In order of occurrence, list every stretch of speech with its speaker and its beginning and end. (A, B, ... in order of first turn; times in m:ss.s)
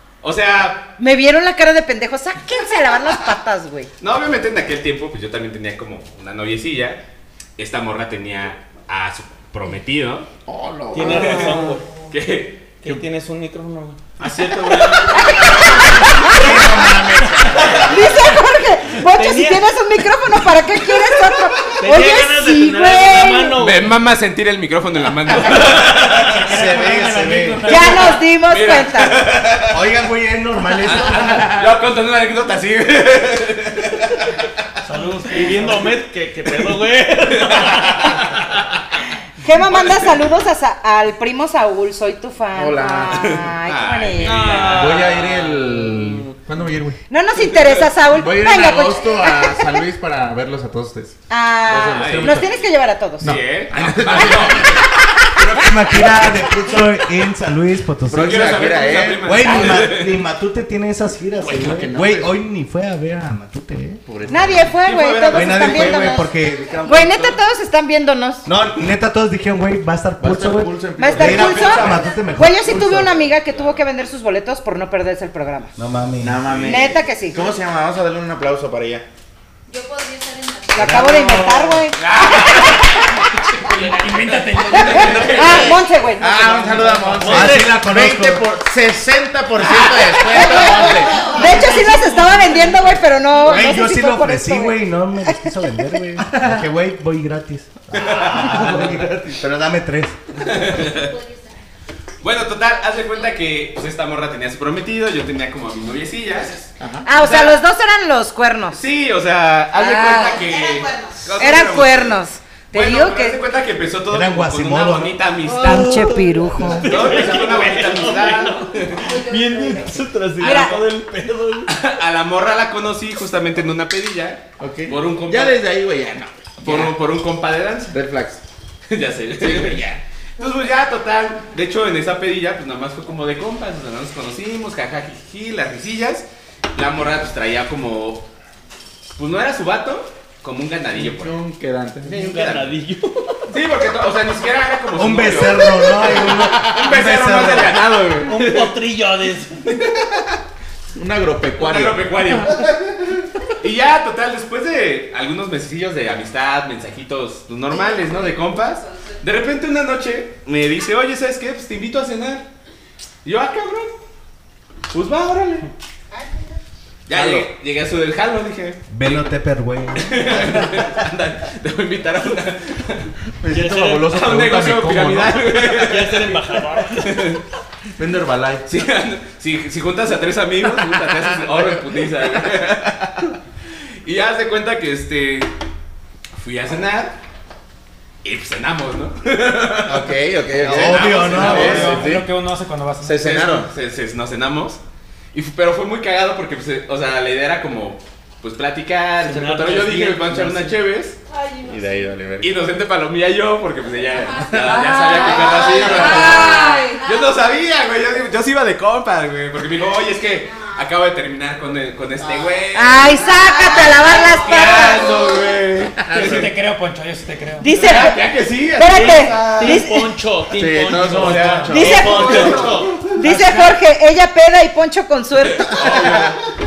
0:00.2-0:00.9 A
0:01.0-0:03.9 B
0:04.0-0:07.0 A
0:07.6-0:10.3 A
0:10.5-0:11.8 C
0:10.9-0:11.8 D
0:11.1-0:11.6 A
0:12.1-0:12.7 A
0:12.8-0:15.4 D
0:14.4-0:15.0 C
0:14.4-0:15.5 A
0:15.2-0:16.4 B
0:16.3-0:17.9 C
0:16.3-0:17.8 E
0:17.2-0:17.9 D
0:17.6-0:17.9 A
0:17.9-0:23.6 B
0:19.0-0:19.7 D
0:21.7-0:24.0 D
0:23.6-0:26.5 A
0:26.2-0:28.2 F
0:26.4-0:27.8 E
0:27.7-0:29.2 B
0:28.4-0:29.9 A
0:29.7-0:31.5 E
0:30.8-0:34.3 A
0:34.8-0:35.8 F
0:35.3-0:38.6 D
0:37.3-0:37.8 A
0:39.4-0:44.5 B
0:39.6-0:40.2 A
0:42.5-0:43.2 C
0:43.1-0:45.2 A
0:44.2-0:46.2 D
0:44.4-0:47.0 C
0:47.1-0:49.8 B
0:47.4-0:48.0 A
0:48.1-0:52.5 C
0:51.3-0:53.4 B
0:51.9-0:52.4 A
0:53.2-0:54.9 A
0:53.2-0:54.8 C
0:55.4-0:58.5 E
0:58.1-0:59.8 C
0:58.1-1:00.3 A
0:59.2-1:04.0 E
1:01.4-1:02.4 C
1:04.1-1:04.8 C
1:04.3-1:06.3 B
1:04.7-1:06.2 A
1:05.3-1:07.3 E
1:06.8-1:08.5 B
1:07.0-1:07.4 A
1:08.4-1:13.2 E
1:10.2-1:11.9 C
1:11.0-1:15.7 B
1:11.2-1:12.0 A
1:13.4-1:13.8 A
1:15.8-1:16.9 E
1:16.2-1:19.1 C
1:16.6-1:17.6 B
1:19.7-1:20.9 G
1:20.7-1:22.9 B
1:20.7-1:21.9 E
1:21.9-1:25.8 A
1:23.8-1:25.5 F
1:24.8-1:26.5 B
1:26.2-1:31.3 C
1:26.6-1:27.1 A
1:27.2-1:27.8 D
1:27.2-1:28.5 E
1:29.6-1:31.2 A
1:30.3-1:35.5 B
1:31.0-1:32.2 G
1:33.4-1:40.2 E
1:36.4-1:36.6 C
1:37.9-1:38.9 A
1:38.4-1:39.4 C
1:40.4-1:41.1 A
1:40.7-1:41.6 G
1:42.2-1:47.6 A
1:46.8-1:47.1 C
1:47.0-1:48.8 B
1:48.7-1:52.2 A
1:49.8-1:50.5 B
1:50.4-1:51.2 G
1:51.4-1:53.4 B
1:52.7-1:56.1 A
1:54.1-1:55.2 E
1:55.5-2:01.7 D
1:55.6-1:57.0 B
1:56.7-1:59.1 A
1:59.0-2:00.1 G
2:00.4-2:00.8 B
2:01.7-2:05.6 A
2:04.6-2:07.0 C
2:06.6-2:08.0 A
2:07.9-2:08.4 C
2:08.9-2:18.3 A
2:09.4-2:10.0 C
2:19.2-2:21.4 A
2:20.9-2:22.3 C
2:22.1-2:23.5 D
2:22.1-2:22.7 A
2:23.5-2:28.7 A
2:24.9-2:27.8 E
2:26.4-2:26.7 C
2:28.2-2:29.6 D
2:29.6-2:30.3 A
2:31.0-2:32.3 C
2:31.5-2:33.0 A
2:33.6-2:42.5 A
2:37.7-2:39.1 G
2:43.2-2:43.9 A
2:44.9-2:45.7 A
2:47.1-2:49.4 A
2:47.1-2:47.5 C
2:48.9-2:50.7 E
2:50.0-2:53.1 A
2:53.4-2:55.4 C
2:53.5-2:54.2 D
2:54.0-2:57.4 A
2:55.7-2:57.4 D
2:58.0-2:58.8 C
2:58.7-3:03.4 A
3:00.9-3:01.8 C
3:04.0-3:05.5 A
3:06.3-3:07.2 A
3:08.2-3:12.0 A
3:09.9-3:12.3 C
3:10.6-3:12.0 E
3:11.3-3:13.4 F
3:13.0-3:13.7 C
3:13.2-3:14.8 A
3:15.3-3:21.2 A
3:19.2-3:20.8 D
3:21.3-3:22.2 G
3:21.6-3:22.6 C
3:22.4-3:33.3 A
3:24.2-3:27.4 G
3:24.8-3:26.9 B
3:25.3-3:26.4 C
3:32.7-3:35.2 B
3:33.2-3:35.4 G
3:33.8-3:36.5 A
3:36.0-3:36.4 C
3:36.1-3:37.7 F
3:37.6-3:40.1 B
3:37.7-3:39.8 A
3:38.9-3:42.9 D
3:40.5-3:42.8 C
3:41.0-3:43.1 A
3:41.7-3:45.8 B
3:45.5-3:46.4 A
3:45.8-3:46.3 E